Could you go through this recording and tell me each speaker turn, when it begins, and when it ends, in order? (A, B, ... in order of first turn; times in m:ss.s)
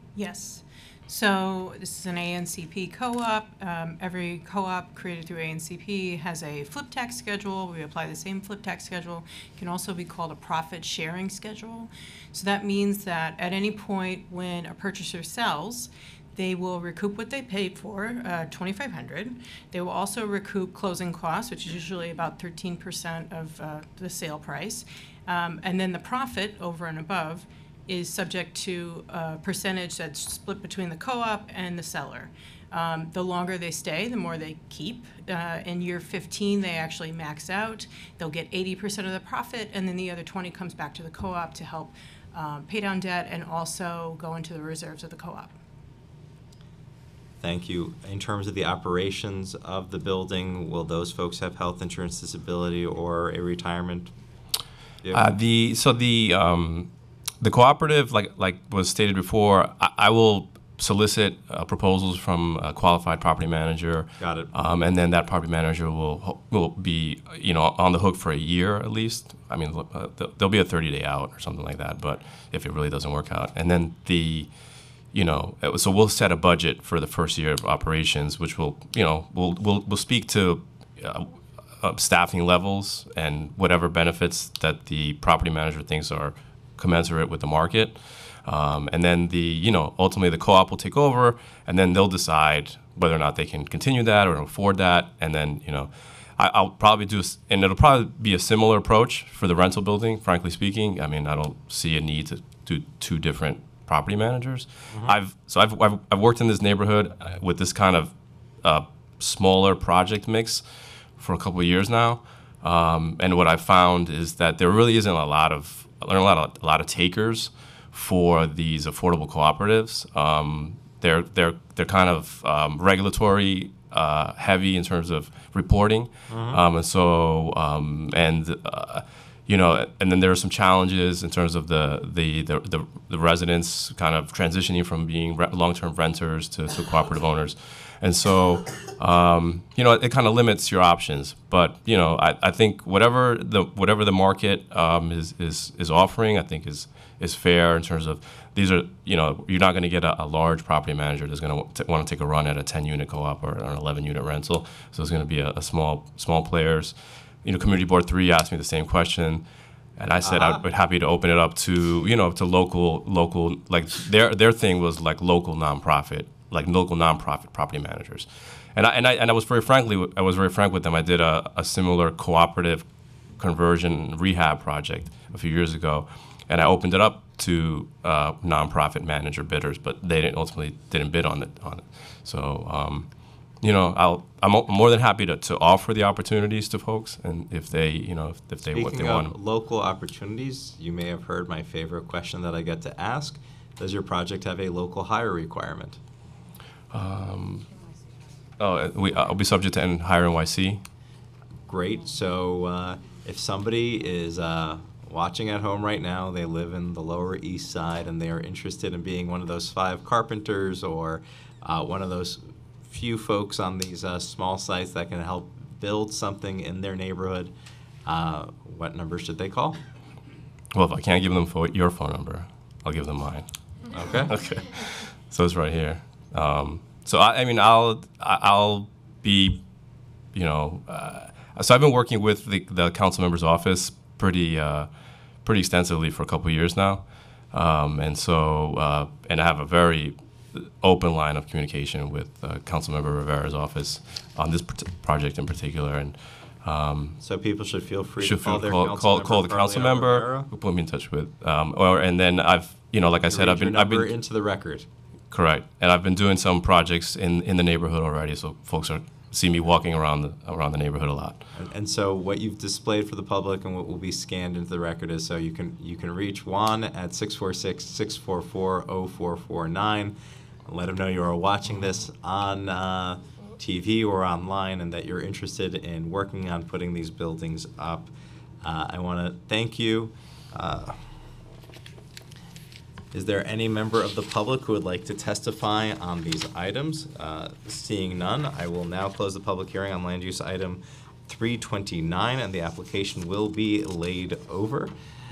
0:00.2-0:45.6 A
0:47.4-0:54.1 B
0:55.0-0:55.3 B
0:55.1-1:14.5 C
1:04.2-1:04.5 B
1:15.1-2:39.4 C
2:06.3-2:06.6 B
2:40.0-2:52.9 C
2:40.2-2:40.6 B
2:53.4-3:03.1 C
3:03.6-3:09.4 C
3:08.7-3:16.0 B
3:16.9-3:17.7 C
3:18.6-3:20.8 C
3:21.7-3:37.5 B
3:38.0-3:39.8 B
3:40.7-3:43.5 C
3:43.9-3:44.3 B
3:44.1-3:49.6 C
3:50.3-3:54.9 C
3:55.4-4:07.2 C
4:07.2-4:10.5 B
4:08.2-4:14.1 C
4:13.3-4:14.9 B
4:15.3-4:21.5 C
4:21.6-4:38.1 B
4:38.6-4:41.0 B
4:43.1-4:54.9 B